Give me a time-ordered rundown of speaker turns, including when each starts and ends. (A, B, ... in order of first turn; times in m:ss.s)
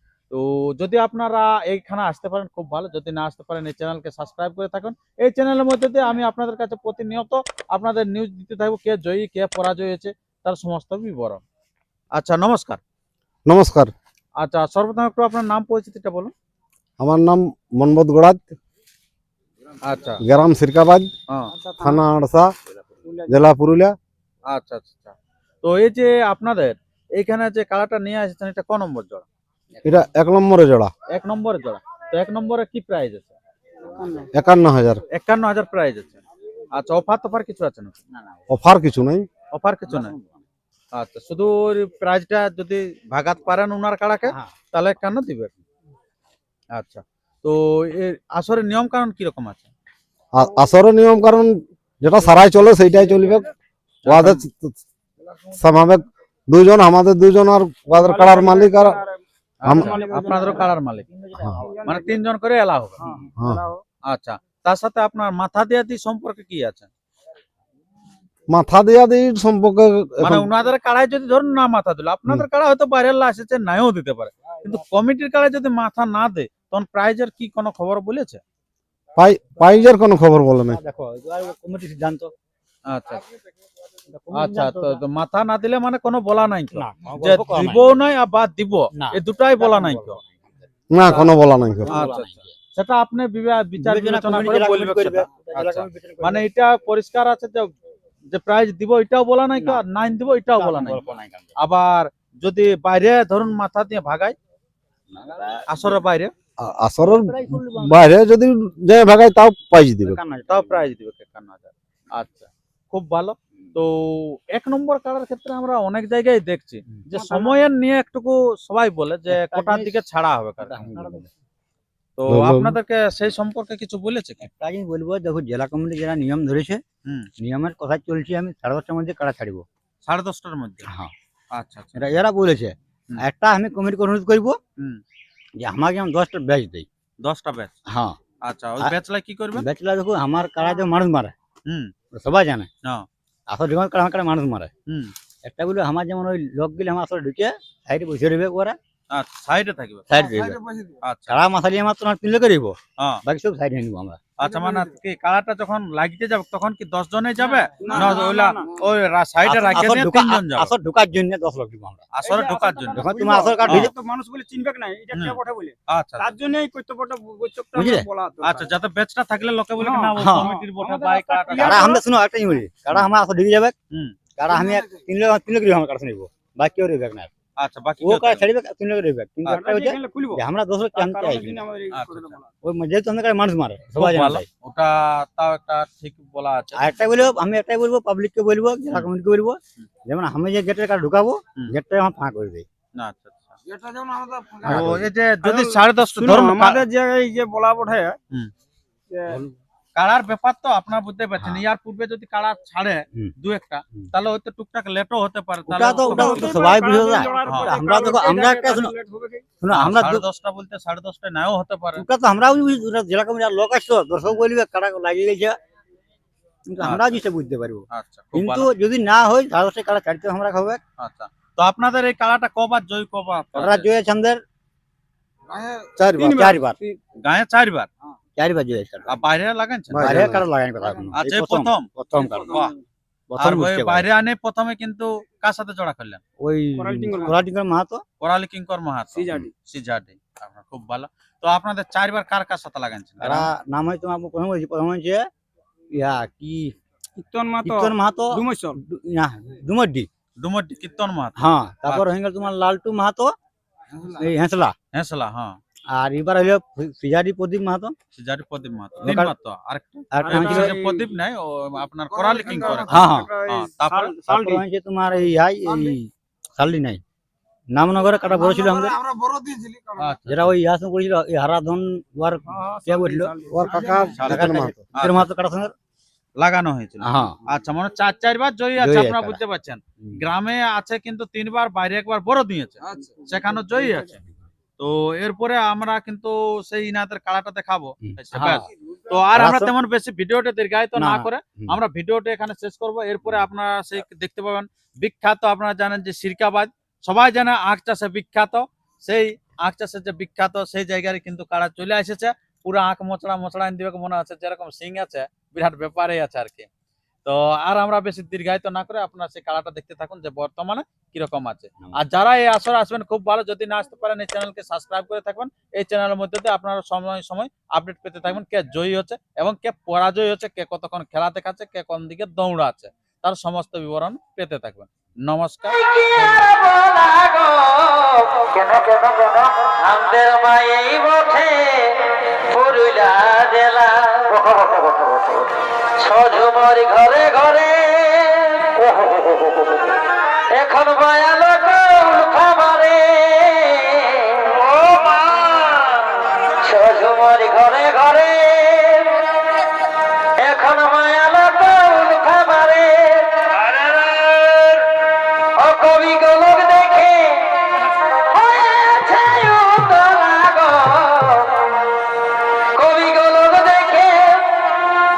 0:00.3-0:11.4 A
0:12.1-0:12.8 A
0:13.5-0:13.9 B
0:14.4-0:16.3 A
0:17.0-0:18.6 B
0:19.8-0:20.2 A
0:20.2-0:21.1 B
0:21.6-0:22.1 C
0:21.8-0:22.5 B
0:23.0-0:23.5 C
0:23.3-0:24.0 B
0:24.5-0:29.3 A
0:29.8-0:30.9 B
0:31.1-0:33.3 A
0:33.9-0:34.3 C
0:34.4-0:35.0 B
0:35.1-0:36.2 A
0:36.7-0:38.0 A
0:38.5-0:39.3 B
0:39.5-0:40.2 A
0:39.9-0:40.3 D
0:40.9-0:45.6 A
0:46.7-0:49.7 A
0:50.3-0:53.5 B
0:54.0-0:54.4 A
0:54.1-0:54.8 B
0:55.5-0:59.0 B
0:57.9-1:00.7 C
0:59.6-1:01.1 A
0:59.6-0:59.9 B
1:01.1-1:01.8 D
1:01.4-1:01.6 B
1:01.6-1:02.2 C
1:01.9-1:03.0 A
1:03.0-1:03.8 C
1:03.4-1:03.6 B
1:04.1-1:06.9 A
1:08.5-1:10.5 B
1:10.2-1:18.4 A
1:19.2-1:20.8 B
1:20.7-1:22.3 D
1:22.9-1:23.2 A
1:24.1-1:25.0 D
1:24.4-1:30.2 A
1:26.8-1:28.0 D
1:29.0-1:30.5 D
1:30.9-1:31.9 B
1:31.1-1:32.5 D
1:31.9-1:37.7 A
1:33.8-1:36.5 D
1:38.3-1:44.4 A
1:39.6-1:39.8 D
1:40.6-1:41.6 D
1:45.1-1:45.9 D
1:45.7-1:46.3 A
1:46.6-1:50.2 B
1:47.0-1:48.1 D
1:50.0-1:50.8 D
1:50.5-2:00.8 A
1:57.2-1:57.5 C
1:59.3-2:00.0 D
2:00.6-2:01.3 D
2:02.2-2:04.5 A
2:02.3-2:02.8 B
2:04.4-2:06.8 D
2:07.4-2:09.6 D
2:10.0-2:10.9 A
2:10.9-2:11.1 D
2:11.5-2:12.1 A
2:12.0-2:14.6 D
2:15.6-2:16.9 D
2:17.2-2:17.8 A
2:17.9-2:18.2 D
2:18.4-2:19.7 A
2:19.6-2:21.3 D
2:21.7-2:21.9 A
2:22.1-2:22.7 D
2:23.5-2:24.7 D
2:24.9-2:25.1 A
2:25.4-2:28.8 D
2:29.1-2:30.1 A
2:30.1-2:30.6 D
2:30.4-2:31.0 C
2:31.0-2:31.4 A
2:31.3-2:34.2 D
2:34.4-2:40.7 A
2:34.4-2:35.0 C
2:37.5-2:38.7 C
2:39.4-2:42.1 D
2:42.1-2:43.1 A
2:42.2-2:48.7 C
2:43.0-2:43.9 D
2:43.7-2:43.9 A
2:45.1-2:46.3 A
2:47.8-2:48.1 D
2:48.4-2:51.9 A
2:49.8-2:52.0 C
2:50.2-2:50.5 D
2:51.5-2:53.8 D
2:53.9-2:54.2 A
2:54.4-2:57.3 D
2:54.5-2:55.0 C
2:57.6-2:58.5 A
2:58.0-3:01.7 D
2:59.4-3:00.4 C
3:00.9-3:02.5 C
3:01.9-3:02.4 A
3:02.6-3:04.5 D
3:04.0-3:07.3 A
3:06.8-3:12.7 D
3:13.0-3:13.6 A
3:13.7-3:14.6 C
3:14.6-3:16.8 A
3:14.6-3:15.1 D
3:15.4-3:18.2 C
3:19.1-3:19.5 C
3:20.0-3:26.6 A
3:21.4-3:21.6 D
3:25.7-3:28.9 D
3:25.9-3:29.5 C
3:27.4-3:27.8 A
3:29.6-3:30.2 D
3:29.7-3:32.1 A
3:32.0-3:35.6 D
3:36.7-3:40.8 D
3:36.8-3:37.2 A
3:37.9-3:38.7 A
3:41.0-3:43.9 A
3:43.6-3:44.4 D
3:45.5-3:47.0 C
3:46.0-3:46.3 B
3:46.2-3:46.8 D
3:47.2-3:47.9 A
3:48.4-3:49.2 D
3:49.1-3:50.4 A
3:49.9-3:50.4 B
3:50.0-3:52.6 D
3:51.2-3:51.9 A
3:52.2-3:52.8 C
3:52.5-3:52.7 A
3:53.3-3:54.1 D
3:53.4-3:56.2 A
3:56.4-3:58.0 D
3:56.8-3:57.4 C
3:58.2-4:03.5 A
3:59.2-3:59.5 C
4:03.2-4:05.3 D
4:05.9-4:06.8 D
4:07.2-4:08.8 C
4:07.6-4:10.1 D
4:10.4-4:12.1 A
4:11.4-4:13.3 D
4:14.0-4:14.7 D
4:14.9-4:15.6 A
4:15.9-4:18.0 D
4:18.1-4:24.2 A
4:19.0-4:19.3 D
4:20.1-4:20.8 D
4:20.3-4:21.1 C
4:22.1-4:24.6 C
4:22.8-4:23.3 D
4:24.3-4:27.0 D
4:27.7-4:29.0 D
4:28.7-4:29.9 C
4:30.0-4:30.5 A
4:30.3-4:33.3 D
4:32.5-4:34.3 C
4:33.5-4:34.7 B
4:34.1-4:35.3 A
4:34.2-4:35.7 D
4:36.4-4:44.2 A
4:37.0-4:37.4 D
4:38.8-4:39.4 D
4:42.9-4:43.8 C
4:44.8-5:06.7 A
4:48.0-4:48.7 D
4:49.4-4:49.7 D
4:51.0-4:51.8 D
5:07.2-5:25.8 A
5:25.8-5:35.4 E
5:36.0-5:39.9 E
5:40.5-5:49.4 E
5:50.4-5:54.9 E
5:55.6-6:01.7 E
6:02.8-6:04.8 E